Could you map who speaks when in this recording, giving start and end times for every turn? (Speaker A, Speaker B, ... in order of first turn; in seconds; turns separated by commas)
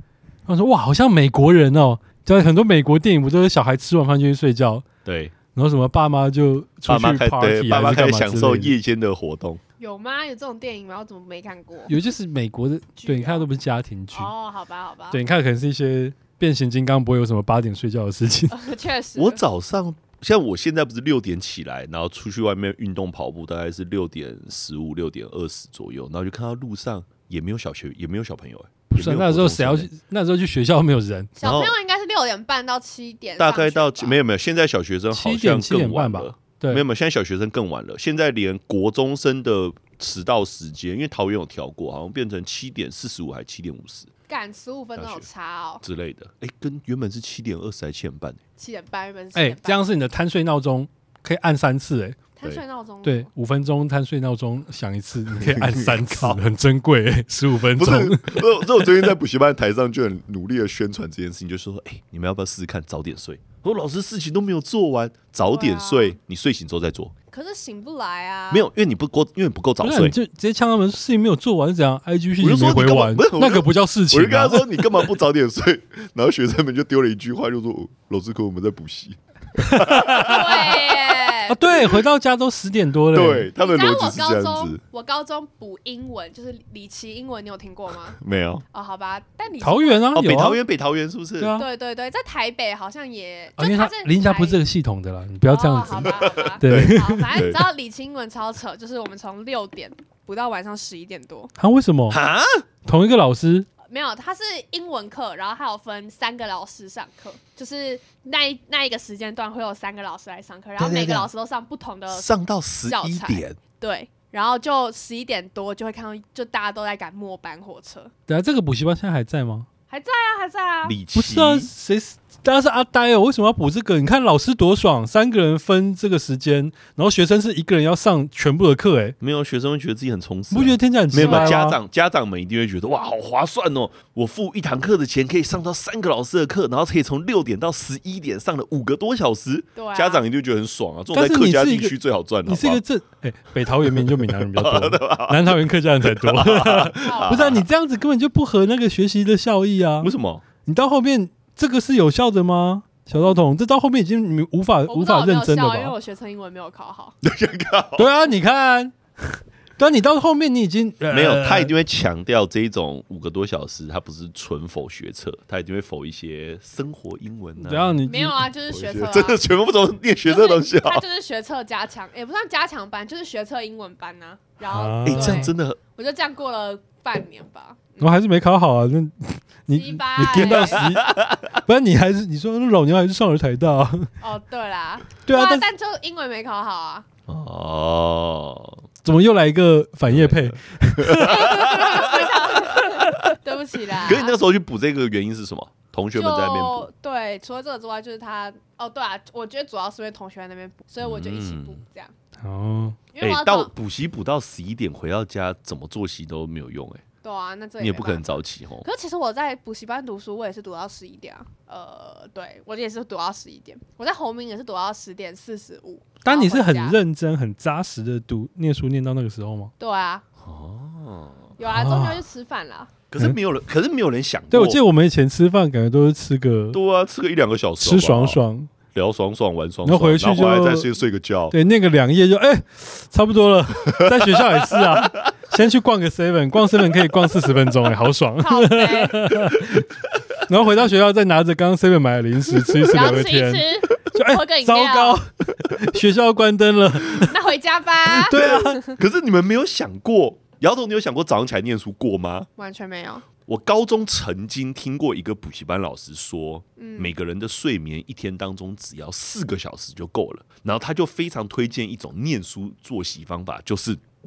Speaker A: 0.5-4.9, Speaker B: 5.0-5.3, Speaker A: 5.5-8.8, Speaker B: 6.9-9.6, Speaker C: 9.8-12.0, Speaker A: 11.9-14.3, Speaker C: 13.0-13.5, Speaker C: 14.1-15.2, Speaker A: 15.1-18.6, Speaker C: 18.5-19.4, Speaker B: 19.2-29.9, Speaker A: 28.9-31.3, Speaker C: 31.4-34.2, Speaker B: 31.4-31.8, Speaker B: 33.4-44.1, Speaker A: 35.1-36.8, Speaker C: 44.3-45.8, Speaker B: 45.0-45.3, Speaker B: 45.8-48.4, Speaker C: 48.6-49.9, Speaker A: 49.3-52.2, Speaker C: 52.4-53.3, Speaker A: 53.0-59.1, Speaker B: 55.4-56.4, Speaker B: 57.7-67.1, Speaker C: 65.5-66.2, Speaker C: 67.3-68.7, Speaker B: 68.5-70.1, Speaker A: 69.8-75.0, Speaker B: 72.4-81.3, Speaker A: 79.6-80.8, Speaker C: 80.2-81.6, Speaker A: 81.5-83.5, Speaker B: 83.1-84.8, Speaker C: 83.6-88.2, Speaker B: 88.2-88.6, Speaker C: 88.7-90.1, Speaker A: 89.6-90.6, Speaker B: 90.1-91.5, Speaker A: 91.4-91.7, Speaker C: 91.6-94.6, Speaker A: 93.6-97.3, Speaker C: 95.5-101.5, Speaker B: 96.0-97.7, Speaker A: 101.6-102.2, Speaker B: 102.1-102.6, Speaker A: 102.8-103.7, Speaker C: 103.8-112.3, Speaker B: 110.8-111.3, Speaker B: 112.1-113.6, Speaker C: 112.9-118.1, Speaker A: 118.3-119.7, Speaker C: 119.9-121.0, Speaker B: 120.8-121.7, Speaker A: 121.1-129.2, Speaker B: 129.2-142.8, Speaker A: 130.5-131.8, Speaker C: 131.2-131.5, Speaker C: 139.8-140.2, Speaker A: 141.1-150.1, Speaker B: 143.7-147.6, Speaker C: 147.0-147.6, Speaker B: 150.0-150.4, Speaker A: 150.6-155.9, Speaker C: 154.9-157.2, Speaker B: 157.2-158.1, Speaker A: 158.0-161.7, Speaker B: 161.1-168.0, Speaker A: 167.6-168.5, Speaker C: 168.1-169.4, Speaker B: 168.7-171.0, Speaker C: 170.2-178.1, Speaker A: 174.7-175.5, Speaker B: 175.1-175.8, Speaker A: 178.0-184.1, Speaker C: 179.7-180.8, Speaker B: 180.3-181.6, Speaker C: 184.2-187.1, Speaker A: 185.2-185.7, Speaker B: 187.3-188.8, Speaker A: 189.0-192.1, Speaker B: 190.1-193.3, Speaker C: 191.2-194.4, Speaker B: 194.0-196.9, Speaker C: 196.1-202.1, Speaker B: 201.0-201.8, Speaker A: 202.4-203.0, Speaker C: 203.1-203.7, Speaker B: 203.2-207.0, Speaker C: 207.2-217.0, Speaker B: 207.8-208.9, Speaker A: 216.2-219.7, Speaker C: 219.8-220.2, Speaker B: 220.4-221.5, Speaker C: 221.6-222.9, Speaker A: 221.7-222.2, Speaker B: 223.1-224.8, Speaker A: 224.5-226.8, Speaker B: 226.7-228.4, Speaker A: 227.8-228.7, Speaker B: 228.9-231.6, Speaker A: 229.8-230.9, Speaker A: 231.5-239.9, Speaker B: 234.0-235.3, Speaker C: 238.4-239.3, Speaker A: 240.5-247.4, Speaker C: 242.9-245.2, Speaker C: 247.1-249.0, Speaker A: 248.1-248.8, Speaker B: 248.2-252.5, Speaker C: 252.6-253.2, Speaker B: 253.5-264.0, Speaker C: 256.8-257.1